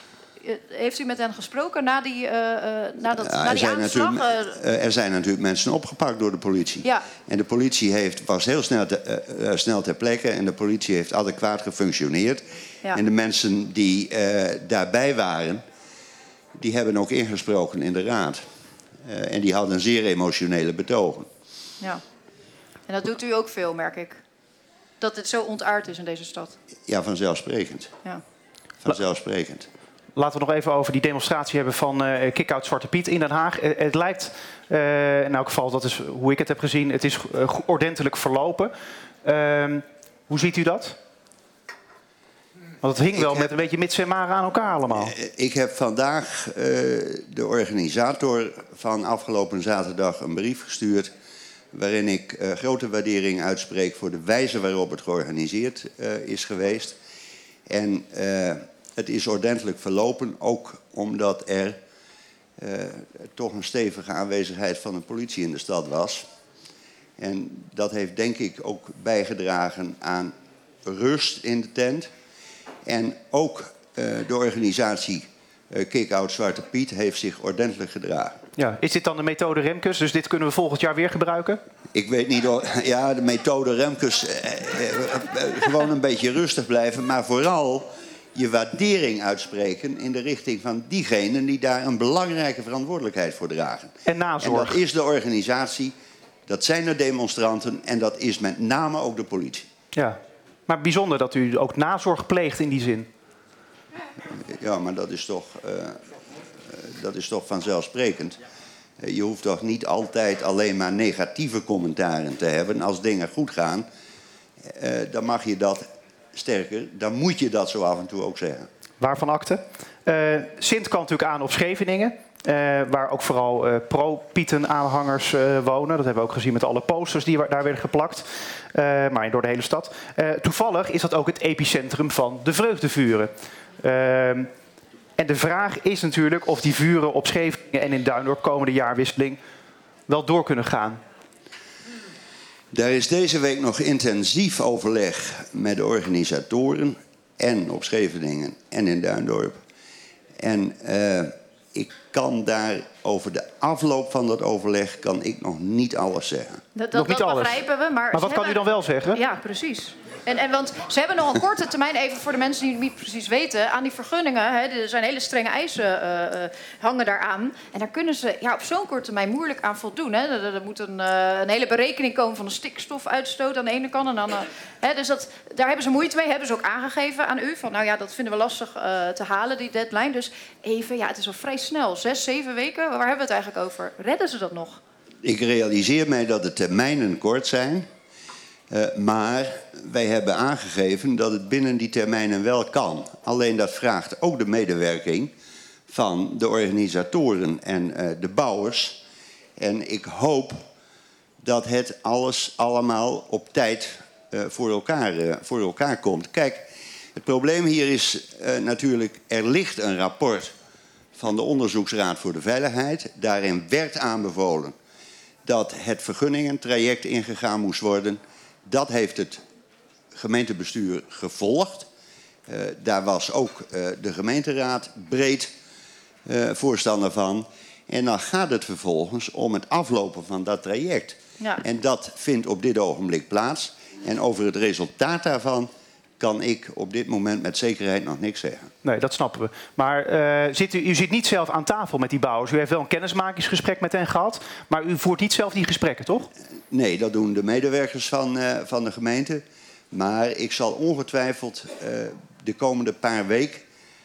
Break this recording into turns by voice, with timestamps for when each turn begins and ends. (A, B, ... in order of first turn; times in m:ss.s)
0:00.4-0:04.6 A
0:03.2-0:15.6 B
0:16.6-0:18.4 B
0:19.0-0:21.3 B
0:22.9-0:24.2 A
0:25.0-0:26.6 A
0:26.9-0:27.9 B
0:28.8-0:29.7 B
0:30.2-0:38.7 C
0:39.2-0:41.0 C
0:42.8-0:45.1 C
0:43.1-0:43.5 B
0:44.9-0:51.1 B
0:51.7-0:57.0 B
0:57.7-1:01.8 B
1:02.6-1:06.2 B
1:07.2-1:10.3 B
1:10.8-1:12.1 B
1:12.8-1:18.4 B
1:18.6-1:21.6 C
1:21.9-1:35.9 B
1:34.0-1:34.8 C
1:36.5-1:39.6 B
1:39.9-1:43.1 C
1:44.2-1:46.0 B
1:46.6-1:48.4 B
1:49.0-1:53.8 B
1:54.6-1:58.7 B
1:59.0-2:14.5 C
2:15.2-2:19.4 C
2:20.1-2:21.0 C
2:22.7-2:29.6 B
2:30.4-2:36.6 B
2:36.8-3:04.8 A
2:36.9-2:37.6 C
2:38.1-2:39.2 C
3:05.2-3:07.9 B
3:08.7-3:15.3 B
3:15.9-3:19.0 B
3:19.6-3:20.6 B
3:21.4-3:30.5 B
3:31.2-3:34.7 B
3:35.4-3:39.4 B
3:40.1-3:41.9 B
3:42.5-3:45.5 B
3:46.2-3:58.7 B
3:58.8-4:06.3 C
4:06.7-4:13.6 B